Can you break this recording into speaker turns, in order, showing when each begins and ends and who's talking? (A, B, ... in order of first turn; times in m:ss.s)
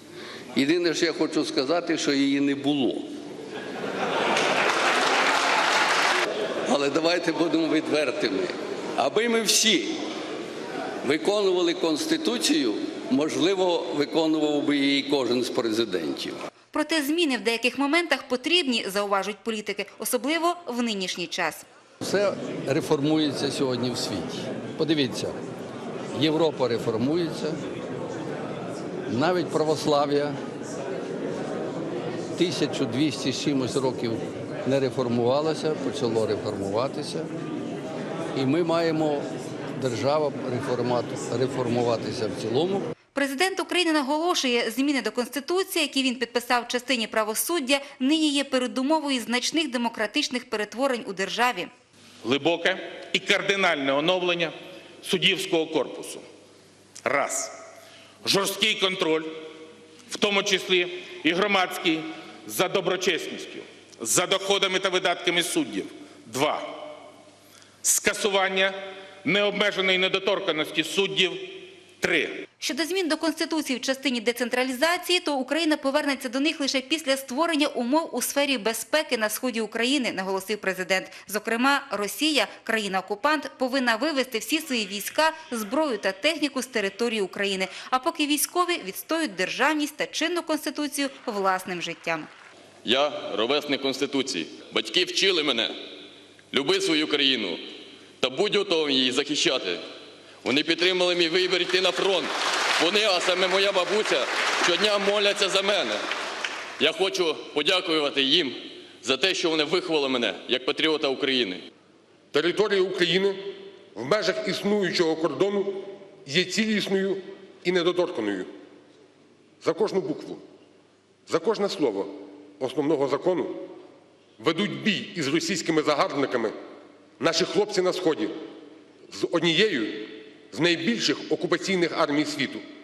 0:00.5-0:03.1 A
0:06.6-0:10.0 A
0:11.0-0:16.4 A
0:16.7-0:21.6 B
0:22.0-0:25.4 A
0:26.1-0:27.6 A
0:29.1-0:30.4 A
0:32.3-0:37.3 A
0:38.3-0:42.8 A
0:43.1-0:51.7 B
0:52.2-0:56.2 C
0:57.0-0:57.5 C
0:58.2-0:59.4 C
1:00.1-1:06.8 C
1:07.8-1:12.4 C
1:12.6-1:32.3 B
1:32.8-1:35.7 D
1:36.5-1:37.6 D
1:38.2-1:39.8 D
1:40.4-1:42.3 D
1:42.8-1:46.0 D
1:46.8-1:48.5 D
1:49.0-1:51.6 D
1:52.3-1:53.4 E
1:53.9-1:58.5 E
1:59.6-2:00.4 E
2:01.3-2:03.6 E
2:04.4-2:06.5 E
2:07.2-2:08.3 E
2:09.1-2:12.6 E